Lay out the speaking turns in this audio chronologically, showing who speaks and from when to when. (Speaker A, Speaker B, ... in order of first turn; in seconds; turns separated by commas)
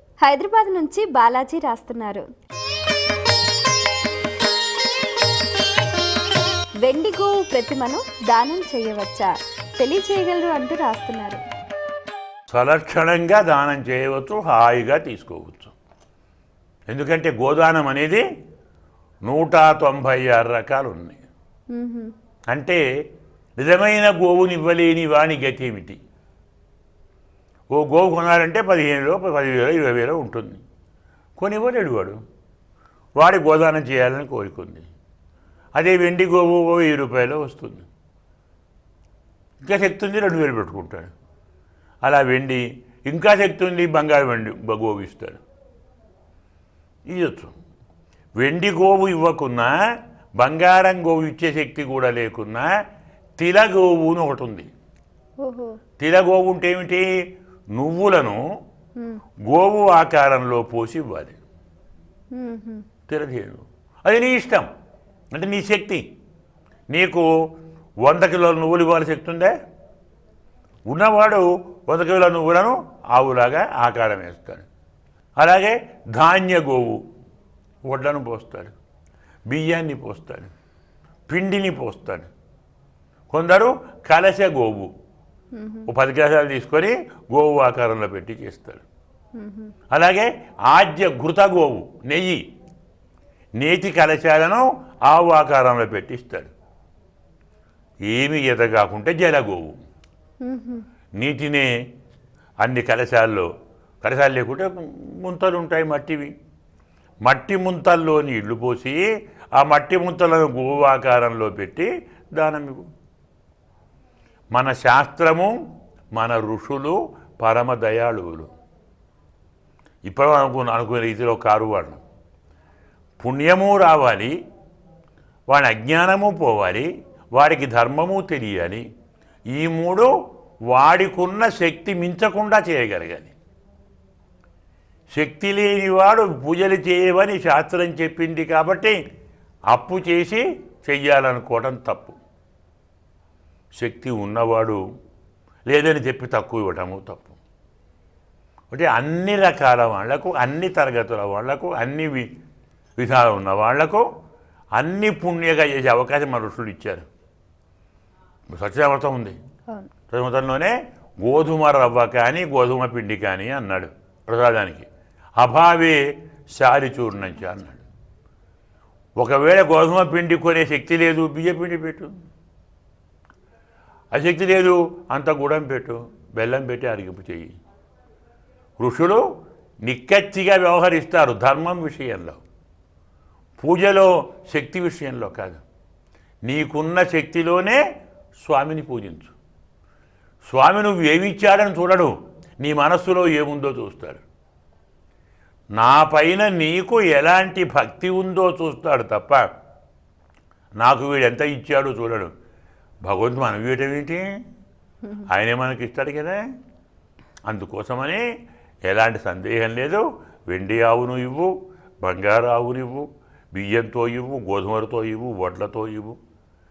Speaker A: 0.2-2.2, Speaker A: 6.8-11.4, Speaker B: 12.5-15.7, Speaker B: 16.9-18.2, Speaker B: 19.2-21.2, Speaker A: 21.7-22.1, Speaker B: 22.5-22.8, Speaker B: 23.6-26.0, Speaker B: 27.7-30.6, Speaker B: 31.4-32.2, Speaker B: 33.2-34.9, Speaker B: 35.8-37.9, Speaker B: 39.6-41.1, Speaker B: 42.0-45.4, Speaker B: 47.1-47.5, Speaker B: 48.4-49.7, Speaker B: 50.4-52.7, Speaker B: 53.4-54.7, Speaker A: 55.4-55.7, Speaker B: 56.0-57.0, Speaker B: 57.7-58.4, Speaker B: 59.5-61.4, Speaker A: 62.3-62.8, Speaker B: 63.1-64.7, Speaker B: 65.3-66.0, Speaker B: 66.9-67.2, Speaker B: 68.0-69.5, Speaker B: 70.9-74.7, Speaker B: 75.4-77.0, Speaker B: 77.8-78.7, Speaker B: 79.5-80.5, Speaker B: 81.3-82.3, Speaker B: 83.3-84.9, Speaker A: 85.5-85.8, Speaker B: 85.9-88.8, Speaker A: 89.4-89.7, Speaker B: 89.9-92.4, Speaker B: 93.6-96.5, Speaker B: 98.0-99.8, Speaker A: 100.4-100.8, Speaker B: 101.2-101.7, Speaker B: 102.6-103.5, Speaker B: 104.0-106.3, Speaker B: 107.2-109.0, Speaker B: 109.5-112.9, Speaker B: 114.5-115.5, Speaker B: 116.1-118.5, Speaker B: 120.0-122.0, Speaker B: 123.2-124.3, Speaker B: 125.5-128.8, Speaker B: 129.5-130.1, Speaker B: 130.7-133.3, Speaker B: 135.1-138.9, Speaker B: 139.7-142.2, Speaker B: 143.8-144.8, Speaker B: 145.7-147.4, Speaker B: 148.7-152.3, Speaker B: 153.0-154.0, Speaker B: 154.8-157.0, Speaker B: 158.5-159.3, Speaker B: 160.1-164.9, Speaker B: 165.4-166.0, Speaker B: 166.5-167.8, Speaker B: 169.2-172.1, Speaker B: 174.1-177.5, Speaker B: 178.8-179.2, Speaker B: 179.8-182.4, Speaker B: 183.6-185.6, Speaker B: 186.4-187.8, Speaker B: 188.4-189.3, Speaker B: 190.4-194.2, Speaker B: 195.8-199.4, Speaker B: 200.8-202.3, Speaker B: 203.0-204.2, Speaker B: 205.2-206.4, Speaker B: 207.5-208.2, Speaker B: 208.9-216.2